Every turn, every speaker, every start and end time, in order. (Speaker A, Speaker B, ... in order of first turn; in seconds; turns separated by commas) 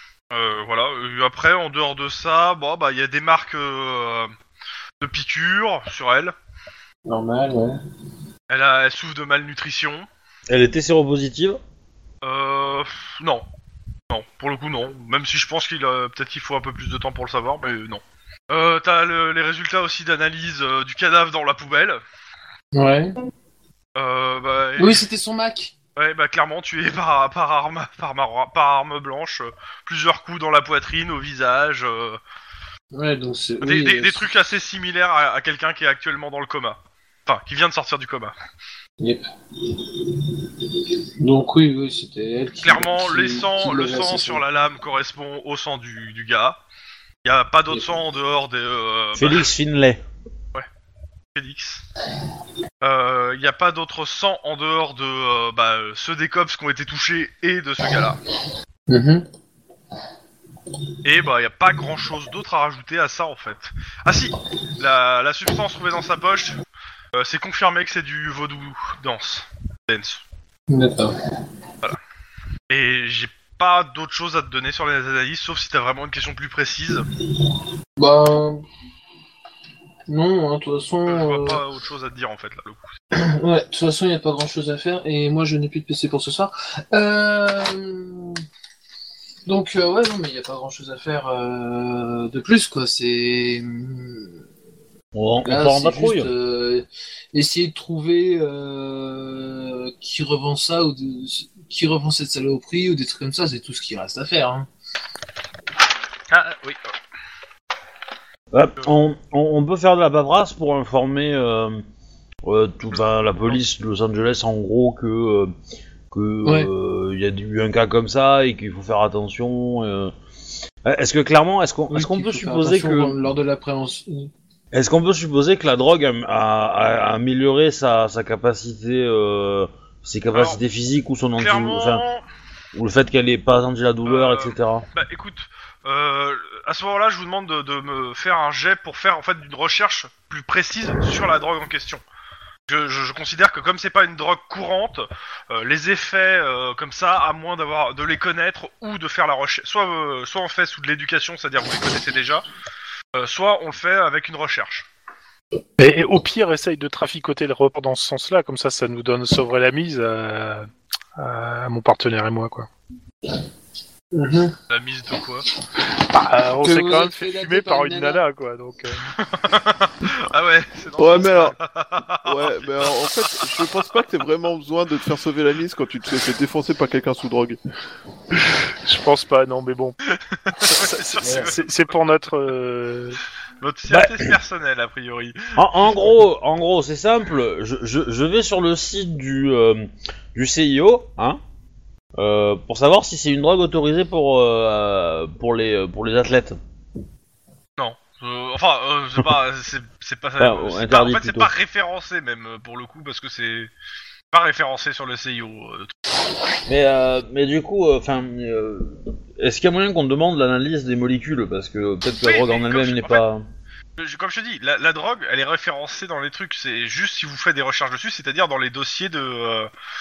Speaker A: 0.3-4.3, Speaker A: 5.0-6.3, Speaker B: 7.0-7.8, Speaker A: 8.5-10.1, Speaker C: 10.5-11.6, Speaker A: 12.2-13.4, Speaker A: 14.1-22.0, Speaker B: 22.7-23.2, Speaker A: 23.9-25.0, Speaker B: 24.8-25.7, Speaker A: 25.9-32.2, Speaker B: 32.9-34.2, Speaker A: 33.6-38.3, Speaker B: 39.0-44.4, Speaker A: 42.6-46.6, Speaker A: 47.2-49.4, Speaker C: 49.1-50.0, Speaker A: 51.3-51.8, Speaker A: 52.8-58.2, Speaker B: 58.9-59.3, Speaker A: 61.0-66.6, Speaker A: 67.1-70.2, Speaker B: 70.7-71.1, Speaker A: 72.7-77.0, Speaker B: 78.0-78.6, Speaker B: 80.1-81.6, Speaker A: 81.1-82.9, Speaker B: 83.1-88.4, Speaker B: 89.5-94.4, Speaker C: 95.1-96.3, Speaker B: 95.4-104.7, Speaker A: 106.3-106.8, Speaker C: 108.5-111.8, Speaker C: 112.4-115.5, Speaker C: 116.1-120.1, Speaker B: 116.4-116.7, Speaker C: 120.8-123.2, Speaker B: 121.9-124.3, Speaker C: 124.7-132.0, Speaker A: 130.3-130.6, Speaker A: 131.4-132.2, Speaker C: 132.7-134.8, Speaker A: 134.0-142.0, Speaker A: 142.7-152.4, Speaker A: 153.1-154.9, Speaker D: 155.8-162.7, Speaker B: 164.1-164.6, Speaker A: 164.7-165.4, Speaker D: 165.9-169.1, Speaker B: 166.6-168.2, Speaker A: 169.2-173.4, Speaker E: 171.0-171.6, Speaker E: 172.2-177.6, Speaker D: 178.5-180.0, Speaker A: 180.1-181.7, Speaker D: 180.6-183.2, Speaker B: 181.2-181.5, Speaker A: 183.6-185.6, Speaker C: 183.9-184.3, Speaker C: 185.6-191.4, Speaker C: 192.2-196.6, Speaker A: 197.8-203.7, Speaker C: 200.4-201.5, Speaker A: 204.3-205.9, Speaker C: 206.7-213.4, Speaker A: 212.2-213.2, Speaker A: 214.0-219.7